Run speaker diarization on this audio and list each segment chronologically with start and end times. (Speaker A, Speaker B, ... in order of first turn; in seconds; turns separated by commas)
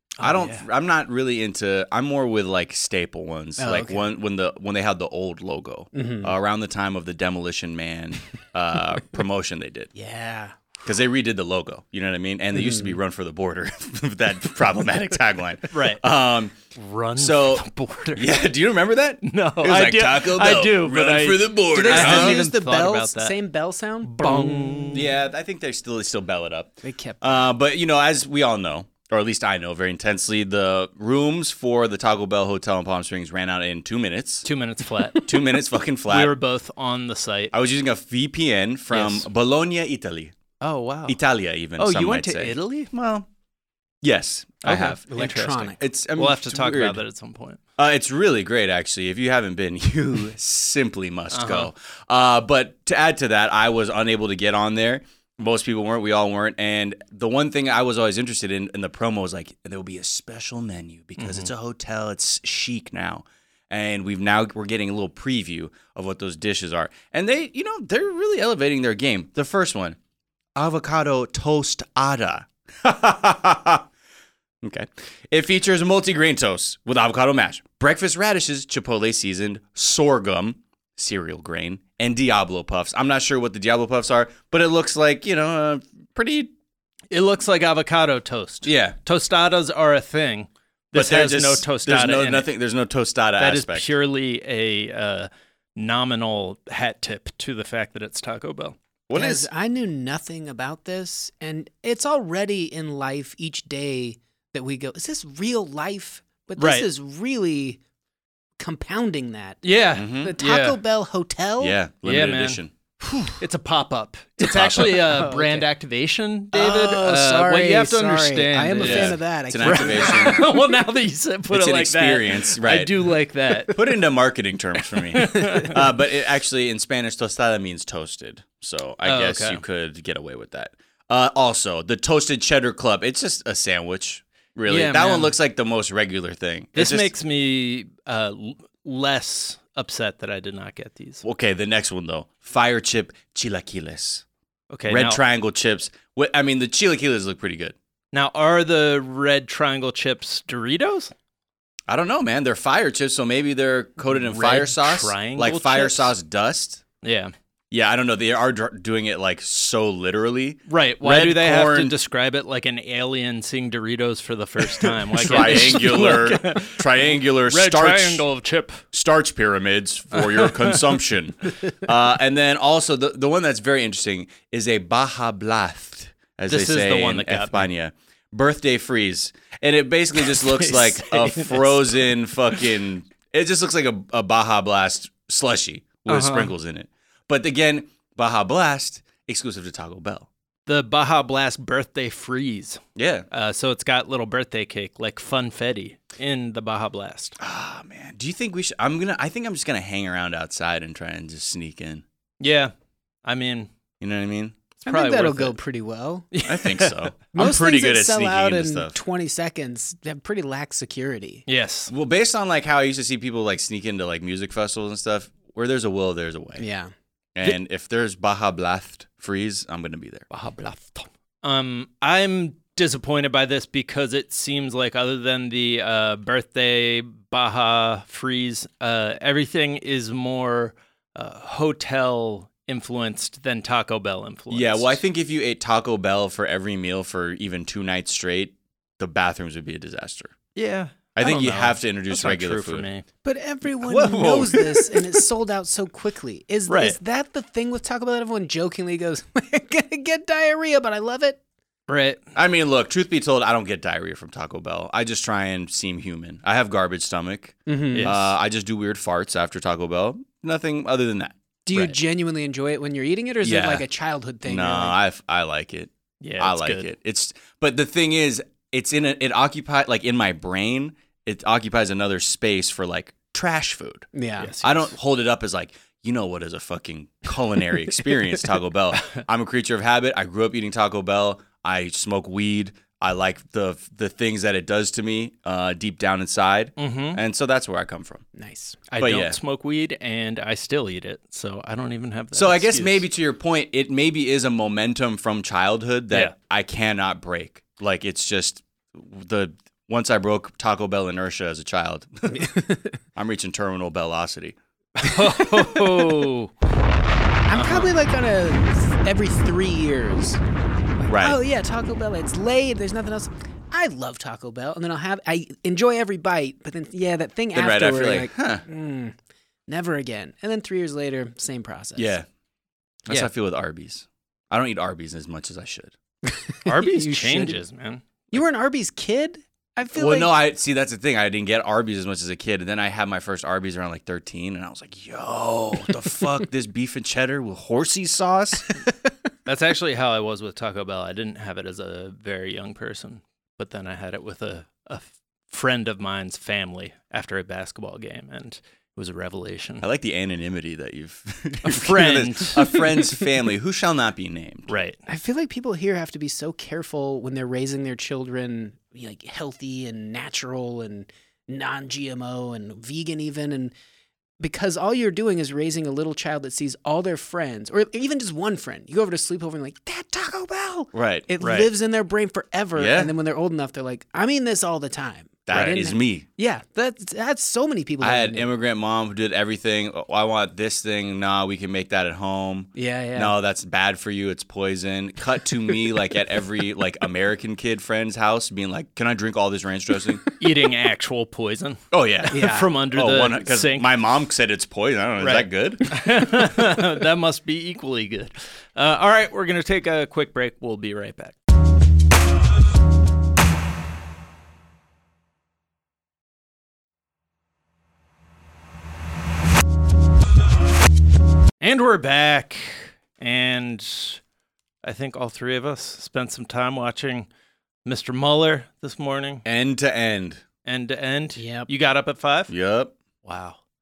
Speaker A: 0.2-0.6, Speaker B: 0.2-9.9, Speaker C: 3.6-4.0, Speaker C: 5.9-6.3, Speaker C: 9.9-10.8, Speaker B: 10.8-16.6, Speaker C: 12.5-12.9, Speaker A: 15.7-16.0, Speaker A: 16.7-18.3, Speaker B: 17.2-22.4, Speaker A: 19.2-23.4, Speaker C: 21.7-25.0, Speaker A: 24.0-25.1, Speaker B: 24.9-34.5, Speaker C: 26.8-27.4, Speaker A: 34.4-35.2, Speaker B: 35.2-36.3, Speaker A: 36.1-37.5, Speaker B: 37.5-40.3, Speaker A: 38.9-39.3, Speaker A: 40.6-41.2, Speaker B: 41.1-43.3, Speaker A: 41.8-42.9, Speaker B: 44.0-45.0, Speaker A: 44.6-47.6, Speaker C: 44.7-45.8, Speaker B: 45.8-47.0, Speaker B: 47.8-70.0, Speaker A: 51.3-51.7, Speaker A: 61.2-61.5, Speaker B: 70.5-73.8, Speaker B: 74.6-86.5, Speaker A: 87.1-92.5, Speaker B: 88.6-89.0, Speaker B: 90.9-93.9, Speaker A: 93.4-98.8, Speaker B: 99.1-99.5, Speaker C: 99.1-107.8, Speaker A: 106.6-106.9, Speaker C: 108.6-111.8, Speaker A: 109.6-110.8, Speaker B: 109.9-110.3, Speaker B: 111.6-112.7, Speaker A: 112.0-112.6, Speaker C: 113.0-113.3, Speaker A: 113.3-123.8, Speaker B: 114.4-115.2, Speaker C: 114.9-115.6, Speaker C: 116.5-120.5, Speaker B: 118.8-120.5, Speaker B: 121.5-123.1, Speaker B: 123.7-137.1, Speaker A: 125.1-125.8, Speaker C: 125.3-125.6, Speaker A: 129.0-129.6, Speaker A: 134.7-135.3, Speaker A: 136.7-141.2, Speaker B: 141.2-144.2, Speaker A: 144.7-145.2, Speaker B: 144.9-147.8, Speaker A: 148.1-151.1, Speaker B: 151.9-156.8, Speaker A: 154.1-156.1, Speaker A: 157.0-157.3, Speaker B: 157.7-161.9, Speaker A: 160.7-168.8, Speaker B: 165.0-168.3, Speaker B: 168.9-190.3, Speaker A: 170.2-170.8, Speaker A: 176.5-177.7, Speaker A: 180.2-182.1, Speaker A: 186.1-186.5, Speaker A: 190.7-197.3, Speaker B: 192.9-193.2, Speaker B: 197.4-202.0, Speaker A: 202.4-202.7, Speaker A: 203.2-203.7, Speaker B: 204.0-204.6, Speaker A: 204.8-205.6, Speaker C: 204.8-206.3, Speaker A: 206.3-207.1, Speaker B: 206.4-208.9, Speaker C: 207.3-211.4, Speaker A: 211.5-211.9, Speaker B: 211.9-216.6, Speaker C: 216.6-216.9, Speaker B: 217.3-220.3, Speaker A: 220.3-235.0, Speaker B: 234.5-240.3, Speaker A: 240.5-243.1, Speaker B: 241.1-242.9, Speaker C: 243.2-251.4, Speaker B: 243.8-244.7, Speaker A: 246.7-247.0, Speaker A: 251.9-252.2, Speaker B: 252.3-261.4, Speaker C: 257.7-258.2, Speaker A: 257.9-258.2, Speaker C: 261.6-265.0, Speaker B: 263.4-263.8, Speaker B: 264.4-274.1, Speaker A: 266.2-266.9, Speaker C: 274.1-274.5, Speaker A: 274.4-274.9, Speaker B: 274.6-288.2, Speaker A: 286.8-287.2, Speaker C: 288.4-288.8, Speaker A: 288.9-293.1, Speaker B: 289.0-289.4, Speaker B: 292.3-302.5, Speaker C: 302.3-302.9, Speaker B: 303.1-304.6, Speaker A: 305.0-306.5, Speaker C: 307.5-310.4, Speaker A: 307.5-307.9, Speaker C: 311.0-319.1, Speaker B: 311.1-311.4, Speaker B: 317.5-318.6, Speaker C: 319.7-322.1, Speaker B: 321.9-322.3, Speaker B: 323.1-325.9, Speaker C: 326.3-327.6, Speaker A: 326.6-328.4, Speaker C: 328.3-330.3, Speaker B: 329.9-338.7, Speaker A: 339.4-349.9, Speaker B: 349.8-354.7, Speaker A: 351.6-352.8, Speaker A: 354.7-355.0, Speaker C: 355.1-363.7, Speaker C: 364.4-378.5, Speaker B: 370.9-371.2, Speaker A: 371.4-371.7, Speaker B: 372.8-373.1, Speaker B: 375.5-376.2, Speaker B: 378.0-390.2, Speaker C: 382.8-383.3, Speaker A: 390.4-393.9, Speaker B: 391.9-395.9, Speaker C: 392.3-392.7, Speaker A: 395.2-401.4, Speaker A: 411.6-414.2, Speaker A: 414.8-417.3, Speaker A: 417.8-419.4, Speaker B: 419.4-420.4, Speaker A: 420.6-422.5, Speaker C: 421.4-421.7, Speaker B: 422.5-422.9, Speaker A: 423.2-423.6